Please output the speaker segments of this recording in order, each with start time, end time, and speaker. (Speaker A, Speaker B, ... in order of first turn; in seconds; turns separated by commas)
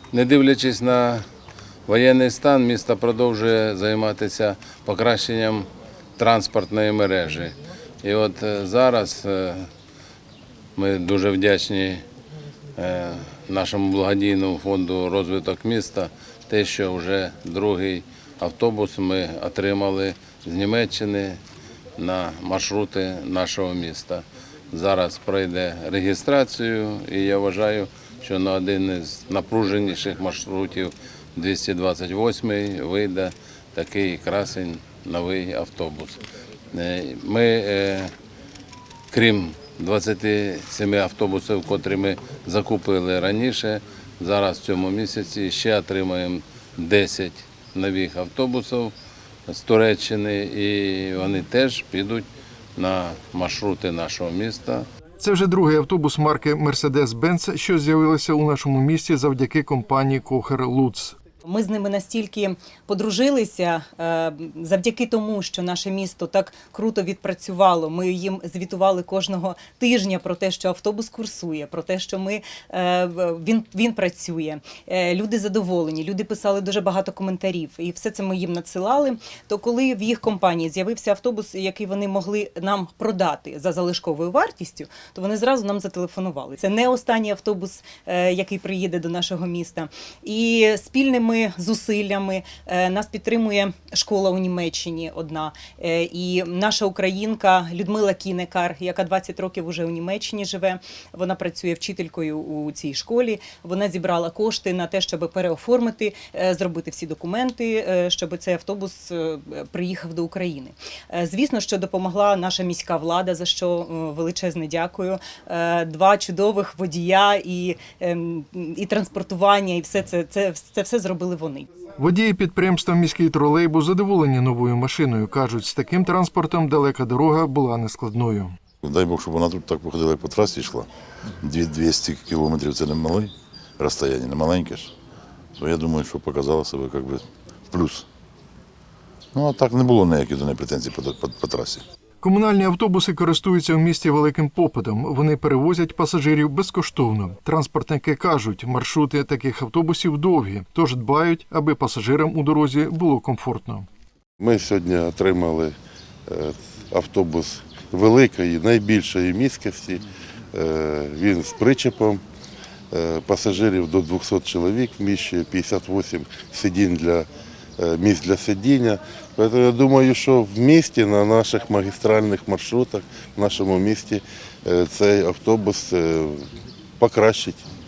Speaker A: 0.1-1.2, Speaker A: 1.9-9.7, Speaker A: 10.8-12.0, Speaker A: 12.8-21.4, Speaker A: 22.0-38.1, Speaker A: 39.1-48.9, Speaker A: 49.5-52.2, Speaker A: 52.8-54.9, Speaker B: 55.2-61.2, Speaker C: 61.5-121.7, Speaker B: 122.0-128.6, Speaker D: 128.8-130.9, Speaker D: 131.4-134.9, Speaker D: 135.6-138.1, Speaker D: 139.3-141.8, Speaker B: 142.2-153.9, Speaker E: 154.4-155.7, Speaker E: 156.3-160.0, Speaker E: 160.5-162.2, Speaker E: 162.9-176.5, Speaker E: 177.0-177.7